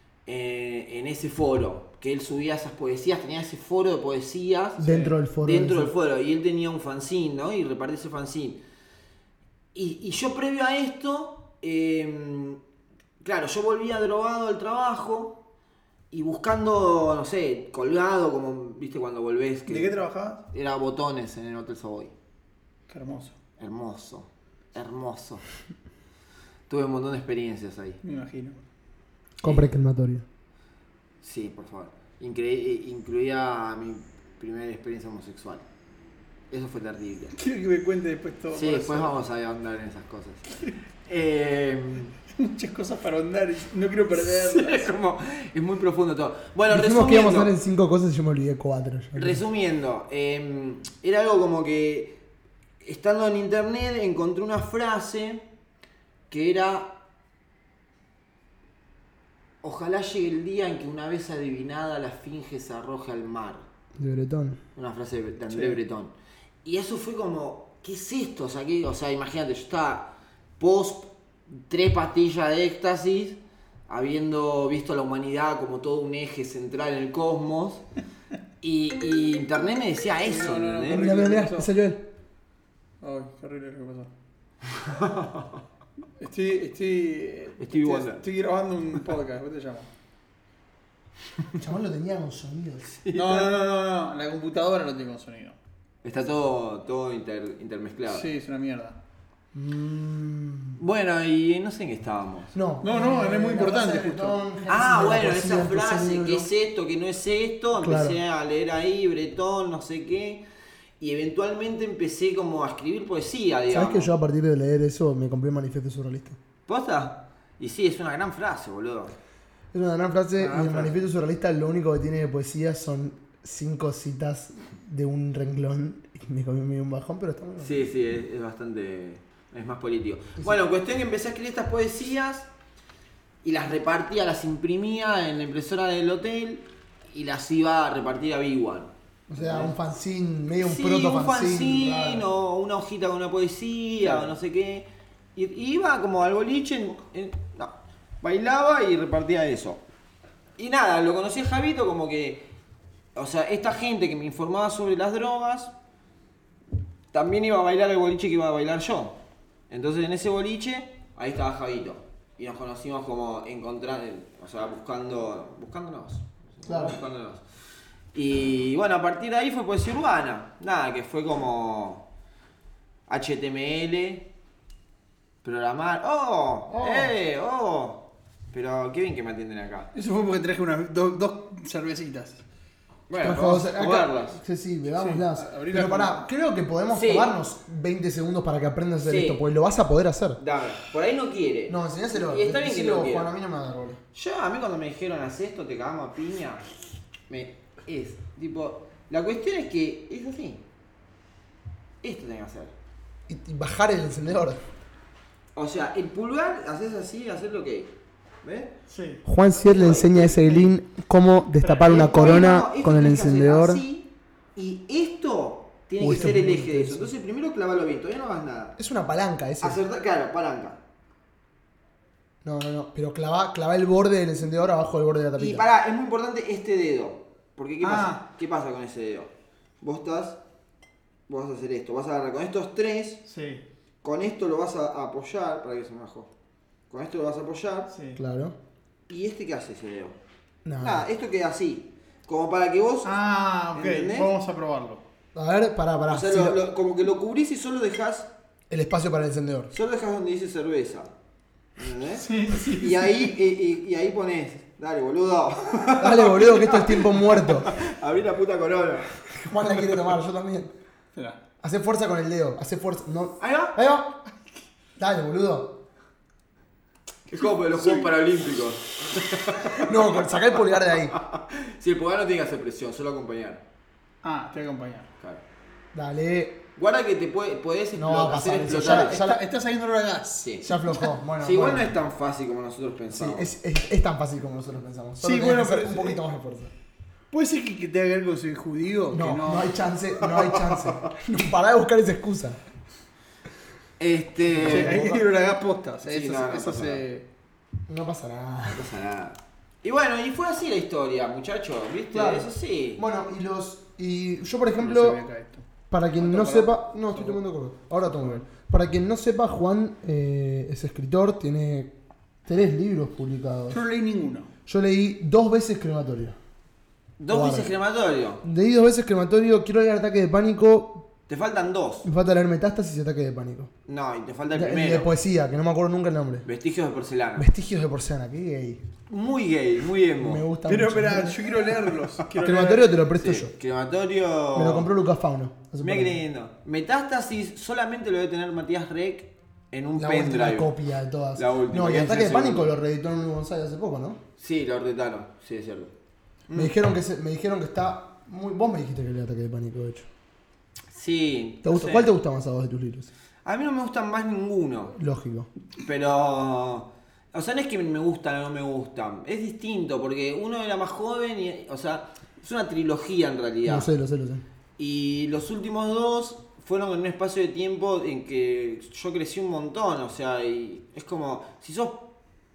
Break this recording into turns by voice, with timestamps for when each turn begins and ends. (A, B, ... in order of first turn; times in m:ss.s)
0:00.3-0:04.9 A
0:04.8-0:05.9 B
0:04.8-0:05.1 C
0:05.4-0:08.6 A
0:09.7-0:12.6 A
0:13.2-0:15.4 A
0:16.1-0:19.9 A
0:19.7-0:20.4 C
0:20.5-0:22.1 A
0:22.9-0:23.4 C
0:23.6-0:25.4 A
0:26.7-0:28.0 A
0:28.0-0:28.6 C
0:29.4-0:30.3 B
0:31.2-0:35.6 A
0:36.5-0:37.4 A
0:37.4-0:39.1 C
0:38.5-0:42.2 A
0:42.3-0:44.9 C
0:44.2-0:47.5 A
0:46.7-0:49.4 B
0:49.2-0:52.2 A
0:52.8-0:55.4 A
0:56.3-0:57.0 A
0:59.6-1:03.7 A
1:04.0-1:04.6 B
1:04.8-1:06.1 A
1:05.5-1:05.8 C
1:06.6-1:17.8 A
1:18.6-1:21.0 A
1:20.2-1:21.7 C
1:20.9-1:22.1 B
1:23.0-1:24.1 C
1:24.8-1:25.6 A
1:26.2-1:29.9 C
1:27.6-1:28.2 A
1:31.6-1:32.9 B
1:32.9-1:33.5 A
1:33.1-1:35.6 C
1:36.0-1:38.3 A
1:38.1-1:39.0 C
1:39.5-1:40.8 B
1:40.8-1:42.5 A
1:42.5-1:46.5 B
1:42.8-1:44.4 C
1:44.7-1:50.4 A
1:47.8-1:48.2 B
1:51.0-1:54.1 A
1:53.7-1:56.4 B
1:56.7-1:59.2 A
1:59.7-2:07.9 B
2:00.4-2:01.0 A
2:07.6-2:12.5 A
2:13.4-2:19.7 A
2:19.3-2:22.3 B
2:20.6-2:29.8 A
2:30.6-2:32.4 A
2:33.2-2:35.7 A
2:37.1-2:39.2 A
2:39.7-2:47.4 A
2:46.7-2:47.0 B
2:48.1-2:52.0 A
2:53.1-2:54.3 A
2:55.4-2:59.9 A
2:56.7-2:57.1 B
2:59.9-3:02.4 C
3:03.1-3:04.4 A
3:03.2-3:10.4 B
3:04.9-3:06.3 C
3:06.9-3:07.3 A
3:09.0-3:09.4 A
3:10.4-3:13.3 A
3:11.7-3:14.0 B
3:14.1-3:16.7 A
3:17.3-3:20.6 A
3:22.0-3:22.7 A
3:23.3-3:24.6 B
3:25.6-3:27.9 A
3:28.4-3:28.7 A
3:28.9-3:29.2 C
3:29.2-3:33.8 B
3:29.6-3:30.7 A
3:31.6-3:32.1 C
3:31.8-3:38.8 A
3:36.0-3:37.1 B
3:38.8-3:39.8 B
3:39.6-3:40.8 A
3:42.4-3:45.6 B
3:45.4-3:49.3 A
3:47.8-3:48.3 C
3:49.8-3:50.4 A
3:51.3-3:53.2 A
3:53.3-3:53.6 C
3:54.0-3:56.3 A
3:56.9-3:57.9 A
3:57.9-3:58.2 C
3:58.2-3:58.6 B
3:59.1-4:00.2 A
4:00.6-4:01.1 B
4:00.8-4:03.1 A
4:03.0-4:05.0 C
4:03.7-4:04.3 A
4:05.3-4:06.6 B
4:06.1-4:08.3 A
4:08.7-4:09.7 B
4:09.7-4:11.1 A
4:11.8-4:19.2 A
4:12.2-4:13.3 C
4:16.0-4:17.7 B
4:19.3-4:20.7 B
4:21.1-4:21.4 C
4:21.6-4:24.2 B
4:23.4-4:23.8 A
4:25.0-4:25.8 B
4:27.3-4:30.2 A
4:27.7-4:28.1 C
4:29.8-4:31.1 B
4:31.1-4:33.6 A
4:34.2-4:35.1 C
4:35.9-4:36.6 B
4:36.8-4:39.2 A
4:38.0-4:39.4 B
4:38.7-4:40.8 C
4:40.4-4:40.7 A
4:40.6-4:42.0 B
4:41.4-4:43.5 A
4:43.1-4:46.7 B
4:45.2-4:46.2 C
4:47.3-4:49.8 C
4:49.1-4:52.6 B
4:54.0-4:55.0 A
4:54.5-4:55.2 B
4:54.7-4:57.2 C
4:56.0-4:57.0 A
4:57.9-4:58.9 B
4:58.7-5:03.0 A
5:02.1-5:05.2 B
5:04.8-5:05.6 C
5:05.9-5:12.0 B
5:06.2-5:07.4 C
5:08.2-5:08.4 C
5:12.5-5:13.8 B
5:13.7-5:14.5 C
5:14.7-5:16.4 B
5:17.2-5:18.4 A
5:17.3-5:17.7 B
5:18.4-5:21.1 B
5:21.3-5:22.1 A
5:22.0-5:23.7 B
5:23.9-5:25.1 A
5:24.5-5:26.5 B
5:26.4-5:27.5 A
5:27.4-5:28.8 B
5:29.1-5:30.4 A
5:30.2-5:31.8 B
5:30.7-5:33.0 C
5:32.4-5:33.5 B
5:33.2-5:34.9 A
5:34.5-5:36.2 B
5:35.8-5:40.7 A
5:40.0-5:44.2 B
5:41.4-5:42.7 A
5:44.4-5:45.9 A
5:46.5-5:46.7 A
5:46.5-5:50.1 B
5:50.9-5:52.1 A
5:51.6-5:53.1 B
5:53.4-5:55.0 A
5:55.0-5:55.5 B
5:55.8-6:03.9 A
6:03.7-6:04.4 B
6:04.8-6:12.1 A